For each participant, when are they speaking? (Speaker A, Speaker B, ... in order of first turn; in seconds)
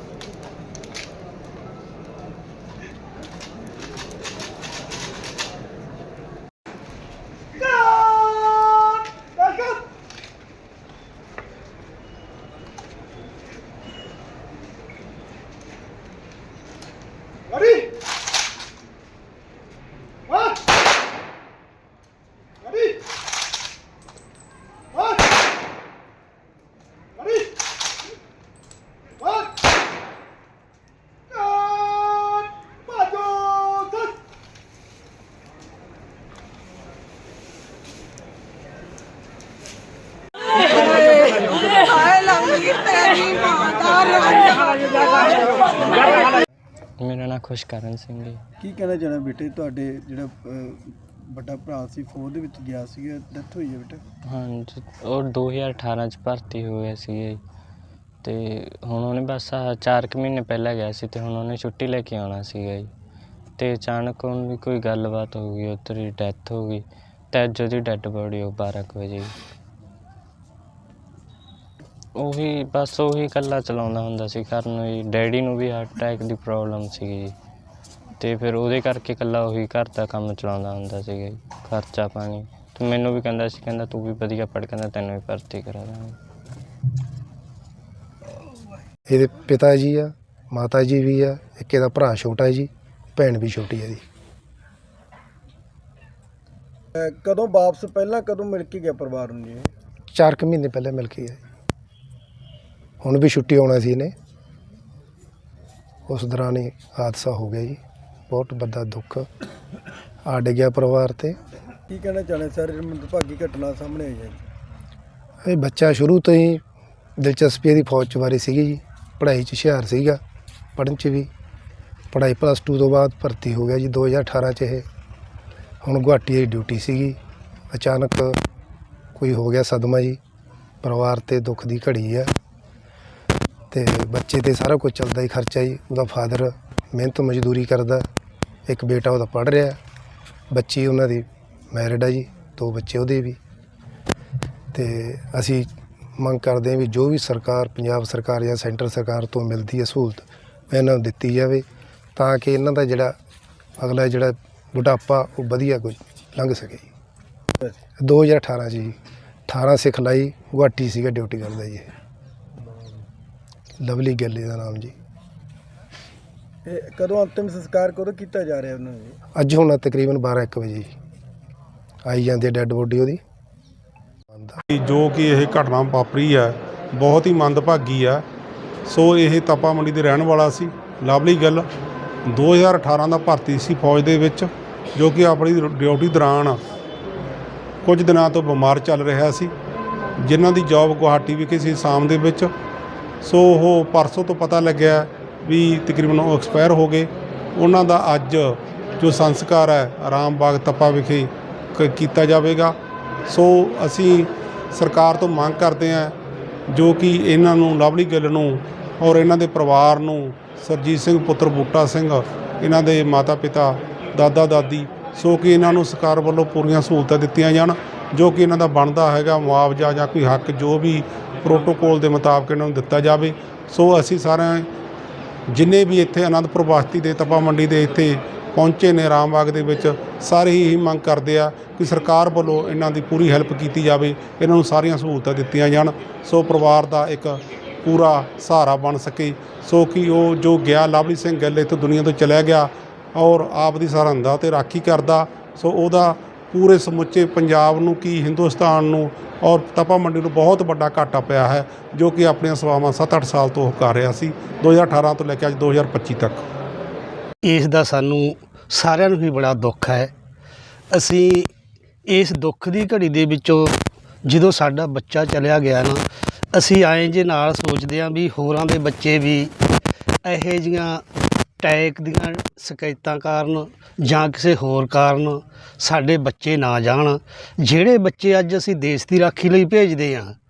Speaker A: 7.6-9.8, 17.5-17.9, 22.6-22.9, 27.2-27.5, 29.2-29.5, 31.3-34.1, 44.0-44.3, 48.6-54.0, 97.0-99.7, 111.9-114.4, 166.6-169.2
Speaker B: 47.0-48.4, 54.2-57.4, 58.2-62.9, 63.6-69.3, 72.2-77.3, 78.2-86.2
Speaker C: 89.1-94.0, 100.1-101.4, 103.0-104.1, 106.1-107.8, 108.3-109.2, 110.2-111.3, 115.4-116.6, 117.2-120.2, 120.8-121.3, 122.1-124.8, 125.8-127.2, 127.7-128.4, 129.2-130.2, 130.8-132.3, 133.7-138.0, 138.7-139.8, 140.5-143.4, 144.7-151.6, 152.2-153.1, 153.8-156.9, 158.0-158.9, 159.5-161.9, 163.8-164.9, 169.4-170.9, 172.1-173.2, 174.3-174.6
Speaker D: 174.7-178.2, 178.9-181.7, 182.3-186.6, 187.8-189.5, 190.2-192.5, 193.2-202.8, 203.3-206.1, 206.7-224.7, 225.5-256.4
Speaker E: 257.4-260.1, 260.9-261.5, 262.1-269.5, 270.2-271.0, 271.6-280.3